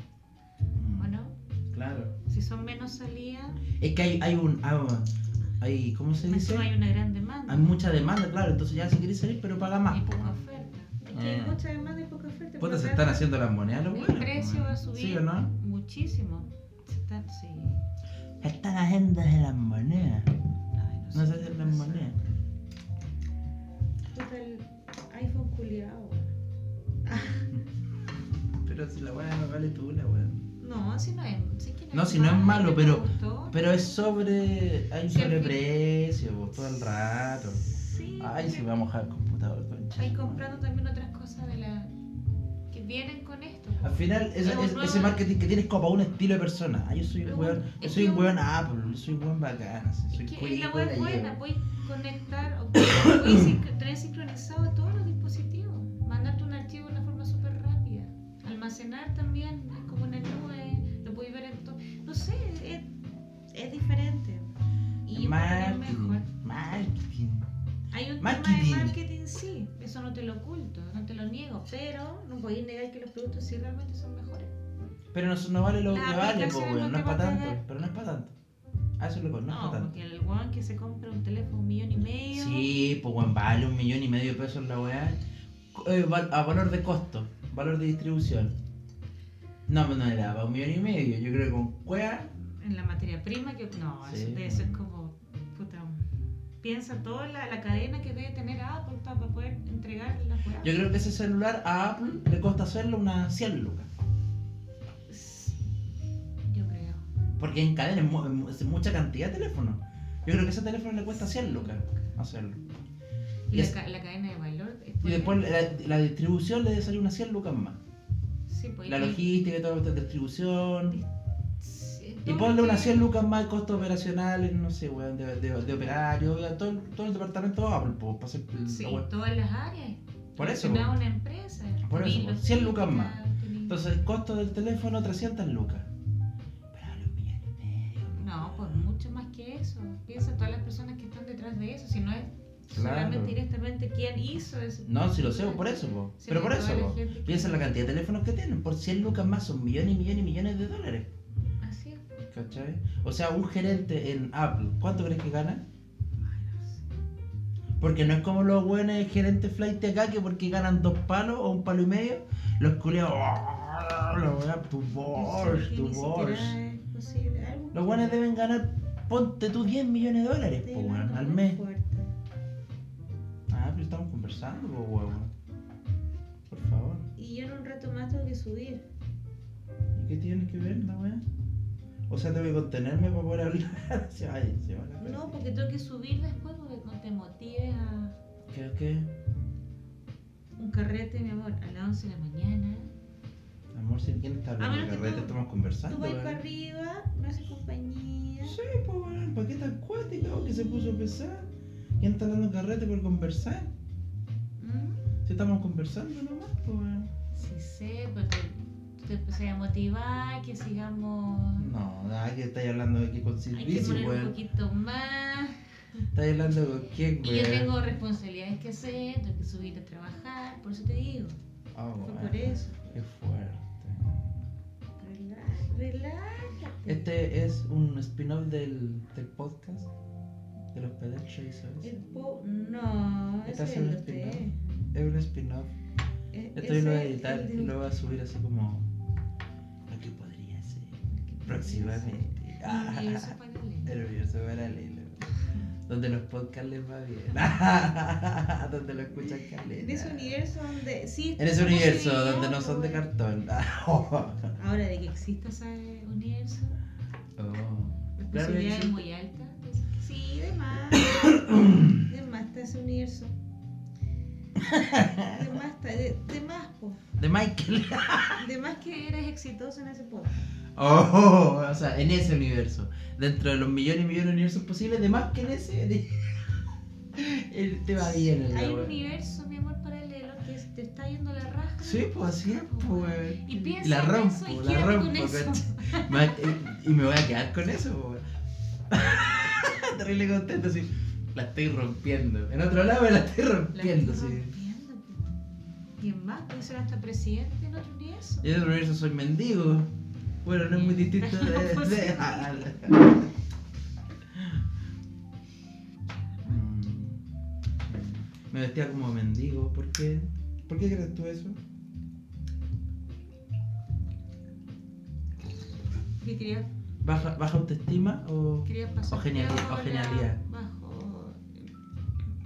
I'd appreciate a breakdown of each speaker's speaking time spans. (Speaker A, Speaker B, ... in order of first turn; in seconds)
Speaker A: 0.8-1.1, 1.7-2.1, 3.8-6.7, 7.5-10.4, 11.1-11.6, 12.6-15.5, 18.4-20.3, 21.1-22.2, 28.6-30.5, 31.9-37.6, 38.2-40.5, 43.8-51.4, 52.8-53.5, 65.1-67.5, 68.2-69.0, 75.1-78.3, 79.0-79.9, 82.3-85.2, 85.7-88.5, 89.7-92.3, 94.0-94.8, 100.6-103.9, 107.4-112.6, 115.0-117.8, 118.9-121.0, 122.2-129.1, 130.4-130.9, 131.8-135.9, 136.7-138.9, 142.7-143.4, 144.8-151.1, 152.3-155.7, 157.8-166.6, 167.7-171.6, 173.5-175.3, 176.5-177.1, 179.9-181.2, 182.1-185.4, 188.5-189.1, 193.7-196.4, 198.4-201.5, 202.0-203.7, 205.3-207.1, 211.6-214.4, 216.1-217.7, 221.7-224.5, 226.9-229.9, 230.7-231.9, 233.5-235.7, 236.6-238.9, 239.9-245.3, 245.9-250.4, 251.4-254.5, 257.4-259.0, 260.9-262.0, 264.6-265.5, 267.2-268.4, 270.8-276.4, 277.1-278.9, 281.8-288.2, 288.9-294.5, 298.4-299.9, 300.4-303.3, 304.3-304.6, 306.5-307.2, 307.8-311.6, 317.0-320.4
Speaker B: 1.0-1.4, 2.3-3.6, 6.2-7.7, 9.9-13.2, 13.9-17.8, 20.8-22.2, 24.1-26.3, 27.1-27.5, 30.6-34.5, 35.0-35.6, 37.5-38.7, 40.0-41.9, 42.7-45.2, 47.2-48.4, 50.1-62.9, 63.5-64.5, 65.0-66.3, 67.9-74.5, 75.9-77.6, 79.5-82.7, 92.6-96.1, 96.6-100.9, 105.1-105.6, 106.5-107.0, 111.0-112.1, 113.5-115.5, 118.5-119.3, 121.6-123.1, 128.7-133.8, 138.1-147.7, 151.6-152.1, 156.2-156.9, 165.1-168.2, 170.6-172.1, 177.2-178.8, 185.0-188.2, 190.6-192.9, 194.6-198.6, 204.6-205.0, 207.3-211.7, 213.5-216.0, 217.2-221.4, 222.0-222.8, 225.0-227.1, 231.8-234.6, 236.3-237.8, 241.1-244.0, 249.8-253.1, 254.6-256.8, 258.2-261.3, 262.0-263.4, 265.3-267.0, 268.4-270.5, 278.0-286.5, 293.7-295.4, 296.0-298.5, 300.7-302.9, 306.1-306.6, 316.2-316.7, 318.7-321.7